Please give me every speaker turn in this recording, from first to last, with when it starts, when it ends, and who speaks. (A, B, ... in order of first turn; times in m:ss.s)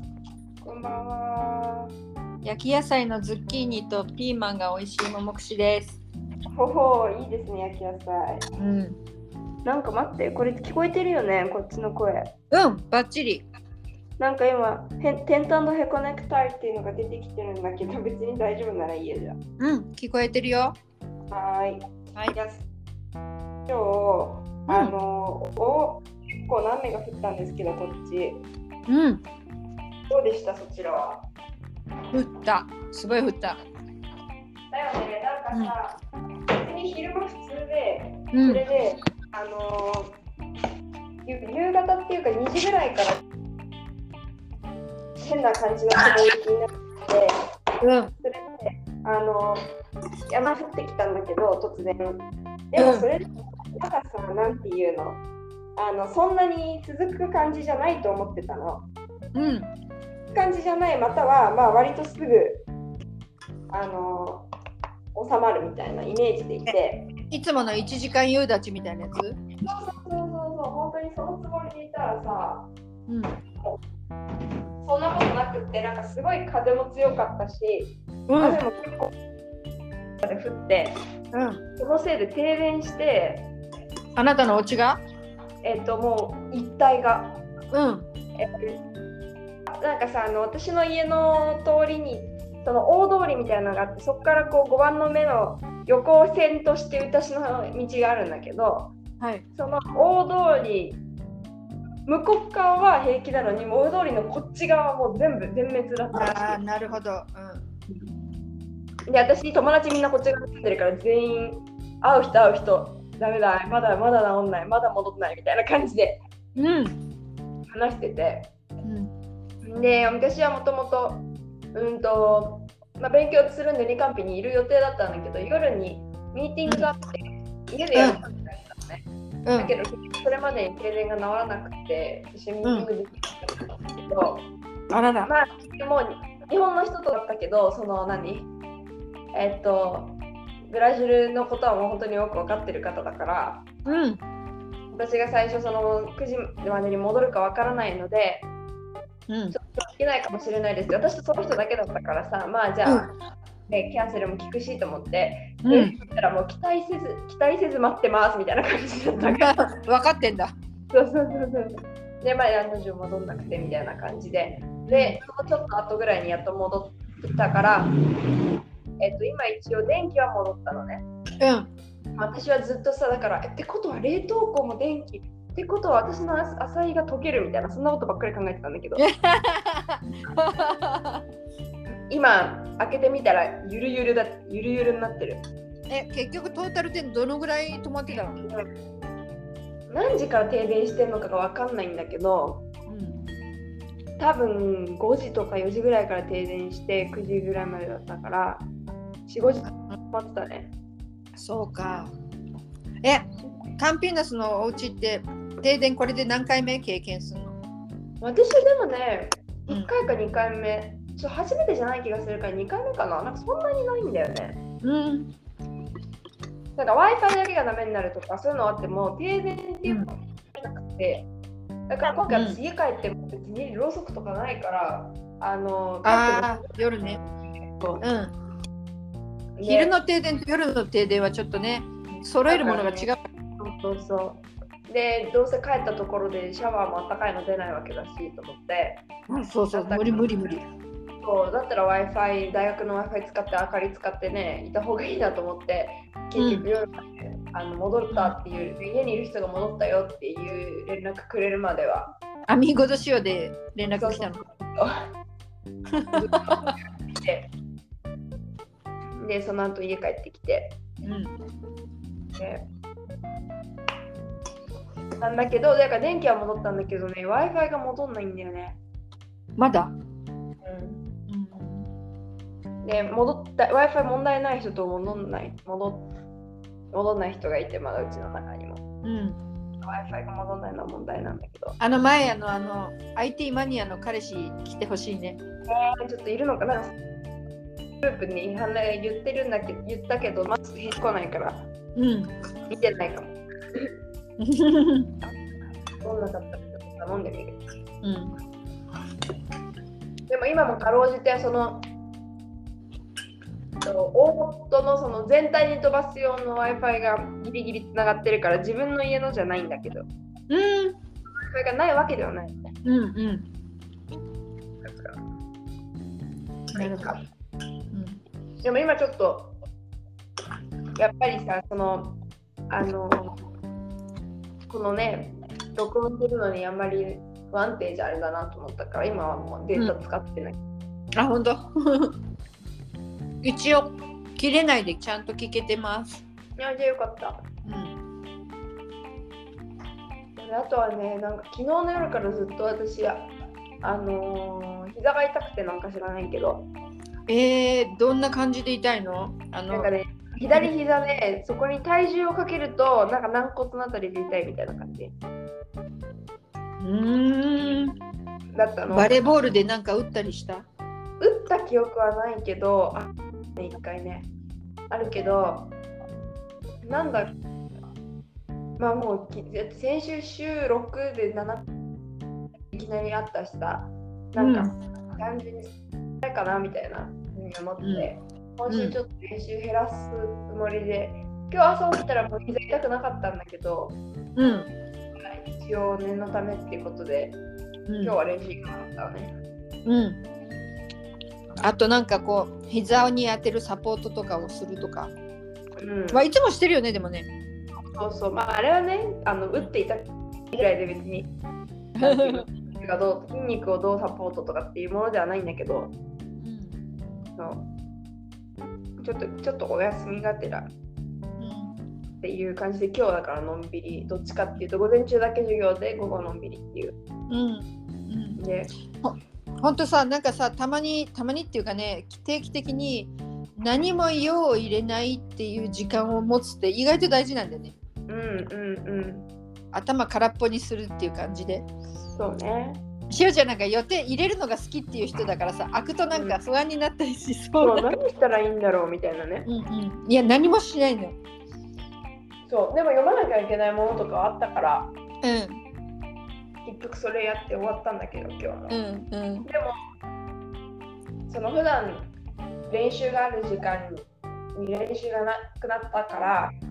0:00.6-0:01.9 A
0:02.4-0:06.0 B
0:06.5-0:08.4 A
0:08.6-0:09.0 B
0:09.6-0:12.3 A
0:12.5-0:13.4 B
0:14.2-0:19.4 A
0:19.6-0:20.8 B
0:21.3-0:22.6 A
0:23.7-0:28.4 A
0:24.7-0:24.9 B
0:28.9-0:29.2 B
0:30.1-0:31.2 A
0:32.1-0:33.6 B
0:34.7-0:36.0 A
0:36.5-0:40.1 A
0:38.3-0:38.6 B
0:41.2-0:43.2 A
0:45.2-0:47.3 A
0:47.8-0:48.1 B
0:48.2-0:49.6 A
0:50.3-0:55.2 A
0:52.8-0:53.1 B
0:55.8-0:58.9 A
0:59.3-0:59.7 B
1:00.3-1:02.6 A
1:03.7-1:04.5 A
1:05.1-1:07.1 A
1:07.3-1:09.4 B
1:09.6-1:12.7 A
1:13.1-1:13.3 B
1:14.8-1:19.1 A
1:18.3-1:18.6 B
1:20.2-1:20.9 A
1:21.3-1:21.6 B
1:21.8-1:23.5 A
1:24.2-1:25.0 B
1:25.6-1:27.4 A
1:27.7-1:28.1 B
1:28.4-1:28.8 A
1:29.7-1:38.9 A
1:39.5-1:41.0 A
1:42.0-1:46.6 A
1:46.1-1:47.6 B
1:49.1-1:56.2 A
1:56.6-1:57.0 B
1:57.7-1:58.5 A
1:58.8-1:59.1 B
1:59.6-2:09.0 A
2:07.9-2:08.2 B
2:09.4-2:09.7 B
2:09.6-2:14.5 A
2:12.6-2:12.9 B
2:14.9-2:15.3 B
2:15.2-2:18.5 A
2:19.3-2:23.6 A
2:23.8-2:24.2 B
2:24.9-2:28.5 A
2:29.3-2:29.6 B
2:29.5-2:33.1 A
2:32.8-2:33.1 B
2:33.7-2:39.5 A
2:35.6-2:36.0 B
2:39.2-2:40.5 B
2:40.9-2:47.9 A
2:44.9-2:45.2 B
2:49.0-2:51.0 A
2:51.4-2:51.7 B
2:52.1-2:59.0 A
2:59.0-3:01.2 B
3:02.1-3:05.4 A
3:05.9-3:08.4 B
3:08.4-3:08.6 A
3:09.9-3:12.7 A
3:12.9-3:13.2 B
3:14.2-3:18.7 A
3:19.3-3:20.7 A
3:21.4-3:22.1 B
3:23.0-3:27.6 B
3:28.2-3:34.6 A
3:34.8-3:35.3 B
3:36.8-3:41.3 A
3:41.9-3:48.0 A
3:42.3-3:42.6 B
3:46.0-3:47.2 B
3:48.0-3:48.3 B
3:49.6-3:49.9 A
3:49.6-3:53.2 B
3:52.4-4:00.6 A
3:59.3-4:00.6 B
4:01.2-4:12.2 A
4:06.4-4:06.7 B
4:12.5-4:14.4 B
4:14.0-4:14.9 A
4:15.9-4:16.7 B
4:16.1-4:17.5 A
4:19.2-4:20.8 A
4:21.0-4:21.3 B
4:22.4-4:22.6 A
4:25.2-4:28.8 A
4:29.6-4:29.9 B
4:30.6-4:31.0 A
4:31.3-4:31.9 B
4:32.8-4:36.1 A
4:36.9-4:38.8 A
4:39.0-4:39.4 B
4:39.8-4:41.7 A
4:41.8-4:45.4 B
4:45.7-4:46.9 A
4:48.0-4:51.7 A
4:52.0-4:52.3 B
4:52.7-4:53.9 A
4:54.4-4:55.1 B
4:56.0-4:57.6 A
4:58.0-4:58.3 B
5:00.3-5:01.8 A
5:03.8-5:10.0 A
5:10.5-5:11.0 B
5:11.4-5:12.6 A
5:12.8-5:13.5 B
5:14.8-5:15.2 A
5:16.7-5:17.2 B
5:16.7-5:17.2 A
5:17.9-5:18.2 B
5:18.6-5:19.5 A
5:21.0-5:22.2 A
5:22.7-5:23.4 A
5:24.7-5:30.6 A
5:31.2-5:32.2 B
5:33.4-5:36.2 B
5:36.6-5:37.4 A
5:37.6-5:38.0 B
5:40.4-5:46.7 A
5:47.3-5:49.9 B
5:49.7-5:55.1 A
5:56.8-5:58.0 B
5:58.5-5:59.2 A
5:58.9-6:00.6 B
6:01.2-6:04.3 A
6:04.9-6:05.7 A
6:06.8-6:07.4 A
6:08.8-6:11.6 A
6:12.7-6:24.0 A
6:14.4-6:14.7 B
6:17.8-6:18.1 B
6:18.7-6:18.9 B
6:24.4-6:24.7 B
6:25.2-6:27.4 A
6:27.9-6:28.2 B
6:28.0-6:29.3 A
6:29.8-6:30.2 B
6:31.6-6:35.1 B
6:35.8-6:36.3 A
6:36.1-6:37.3 B
6:37.8-6:41.3 A
6:42.0-6:45.9 A
6:42.0-6:42.5 B
6:46.4-6:46.8 B
6:47.4-6:47.7 A
6:49.0-6:50.7 A
6:51.4-6:51.8 B
6:52.2-6:57.0 A
6:57.3-6:58.4 B
6:58.4-6:58.7 A
6:59.0-7:07.7 B
7:08.1-7:09.3 A
7:09.7-7:11.7 B
7:12.1-7:12.8 A
7:13.1-7:17.9 B
7:16.1-7:16.4 A
7:17.6-7:19.5 A
7:19.4-7:21.1 B
7:22.5-7:24.9 A
7:25.2-7:25.6 B
7:26.6-7:28.8 A
7:28.7-7:29.5 B
7:29.4-7:29.7 A
7:31.3-7:32.1 A
7:32.7-7:36.6 A